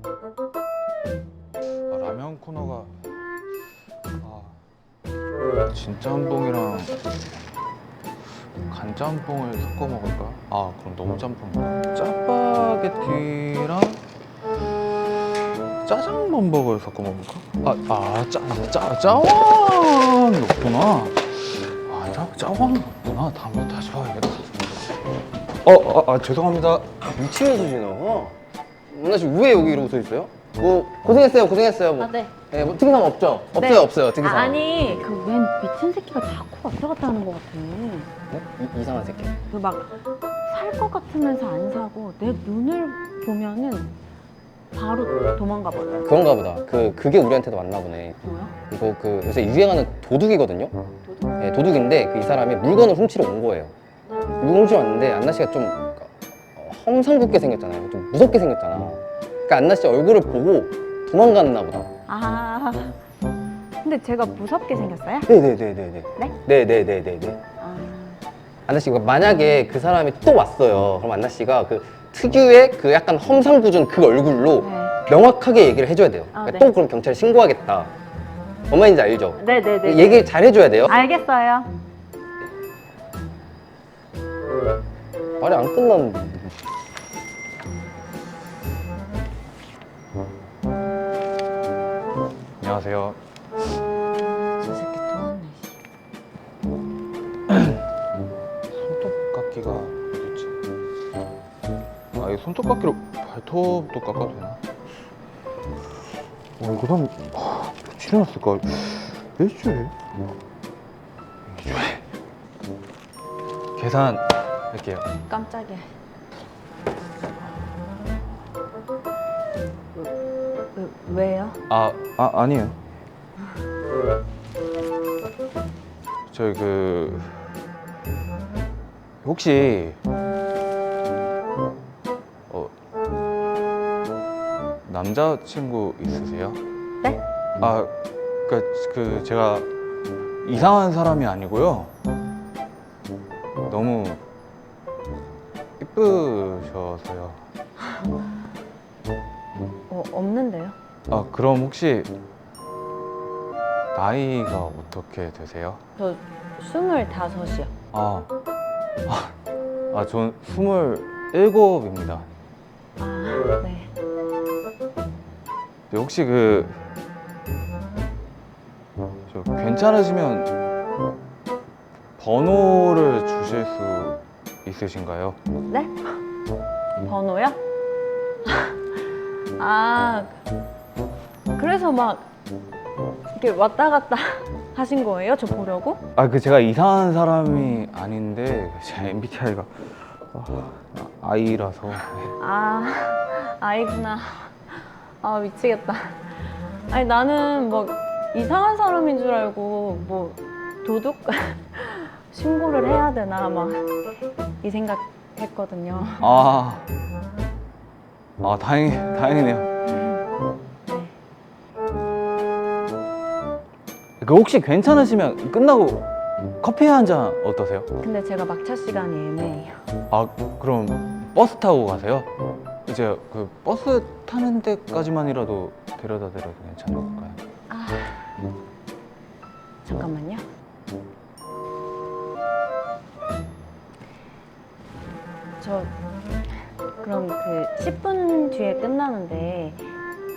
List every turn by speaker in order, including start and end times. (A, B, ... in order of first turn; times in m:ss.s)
0:01.9-0:02.9 A
0:04.2-0:04.6 A
0:05.7-0:07.0 A
0:08.7-0:14.0 A
0:15.9-0:24.9 A
0:25.6-0:27.0 A
0:27.1-0:28.4 B
0:28.9-0:34.6 B
0:32.0-0:32.3 C
0:33.6-0:38.1 C
0:38.3-0:39.4 B
0:39.5-0:40.0 C
0:40.5-0:43.9 C
0:44.7-0:46.1 C
0:46.0-0:50.7 B
0:48.2-0:48.6 C
0:51.4-0:53.7 B
0:54.4-1:01.9 B
1:02.1-1:03.0 C
1:03.8-1:05.3 C
1:05.3-1:07.4 B
1:07.6-1:08.2 C
1:08.7-1:17.9 B
1:14.6-1:15.1 C
1:16.3-1:16.7 C
1:18.7-1:21.0 B
1:19.4-1:20.2 C
1:20.8-1:21.7 C
1:25.4-1:26.5 B
1:32.6-1:33.2 A
1:34.4-1:35.8 C
1:38.7-1:40.5 A
1:42.2-1:44.6 A
1:46.6-1:49.9 A
1:51.5-1:52.0 A
1:53.8-1:55.1 A
1:55.3-1:55.9 C
2:00.7-2:01.6 C
2:01.7-2:02.8 A
2:06.3-2:07.5 A
2:09.2-2:10.0 A
2:14.9-2:16.6 A
2:17.6-2:17.9 A
2:18.5-2:19.7 A
2:20.4-2:21.9 A
2:23.7-2:24.2 A
2:25.8-2:27.4 A
2:29.9-2:30.8 C
2:31.1-2:32.1 A
2:33.9-2:35.8 A
2:36.0-2:37.7 C
2:37.9-2:38.3 A
2:39.1-2:39.4 A
2:39.9-2:42.3 A
2:43.0-2:43.9 C
2:45.9-2:46.8 A
2:49.3-2:50.5 A
2:52.2-2:55.4 A
2:55.7-2:56.1 C
2:57.0-2:57.6 C
2:58.4-2:58.8 C
2:59.6-3:00.4 C
3:01.6-3:02.3 C
3:03.3-3:06.0 C
3:06.2-3:12.3 A
3:12.4-3:23.9 C
3:24.6-3:26.4 C
3:26.2-3:26.9 A
3:28.4-3:29.7 A
3:29.9-3:30.2 C
3:30.9-3:31.1 C
3:34.2-3:37.9 A
3:38.0-3:39.8 C
3:40.1-3:42.3 A
3:42.9-3:47.4 A
3:47.7-3:48.3 C
3:49.8-3:50.4 C
3:55.6-3:55.9 C
3:57.0-3:59.8 C